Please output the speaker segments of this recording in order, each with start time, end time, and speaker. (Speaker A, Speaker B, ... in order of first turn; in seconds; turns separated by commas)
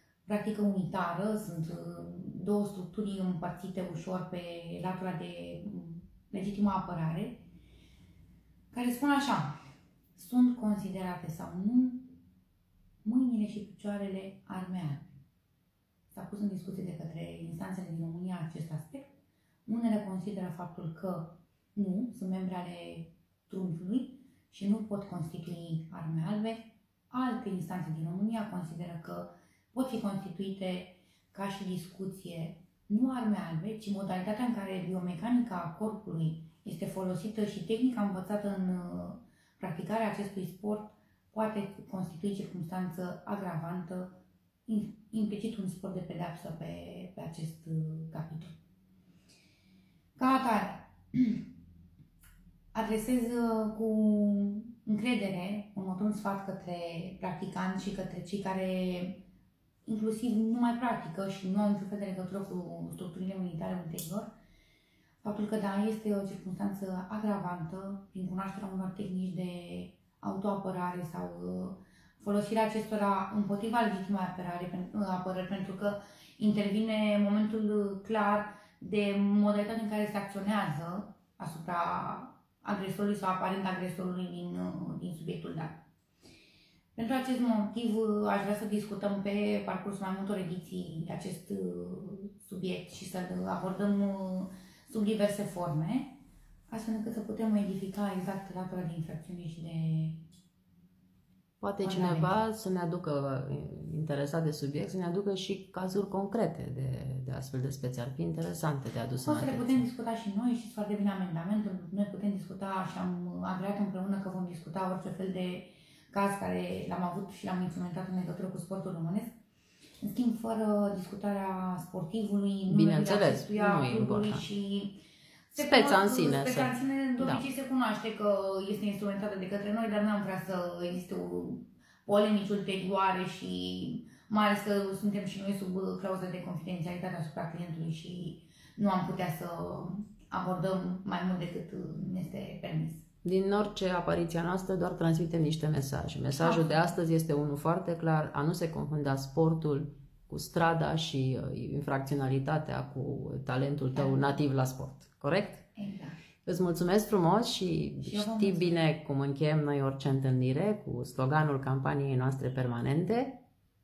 Speaker A: 0.2-7.5, Speaker A: 8.7-9.5, Speaker A: 10.2-12.2, Speaker A: 13.0-15.2, Speaker A: 16.1-48.5, Speaker A: 50.2-51.5, Speaker A: 52.7-59.2, Speaker A: 59.9-64.3, Speaker A: 65.2-85.8, Speaker A: 87.0-100.2, Speaker B: 101.6-109.8, Speaker A: 101.8-102.4, Speaker A: 109.2-119.3, Speaker A: 120.0-143.0, Speaker B: 122.7-124.4, Speaker B: 125.6-127.4, Speaker B: 143.2-155.6, Speaker A: 146.4-146.9, Speaker A: 153.9-154.4, Speaker A: 155.8-156.2, Speaker B: 156.4-163.4, Speaker A: 158.0-158.8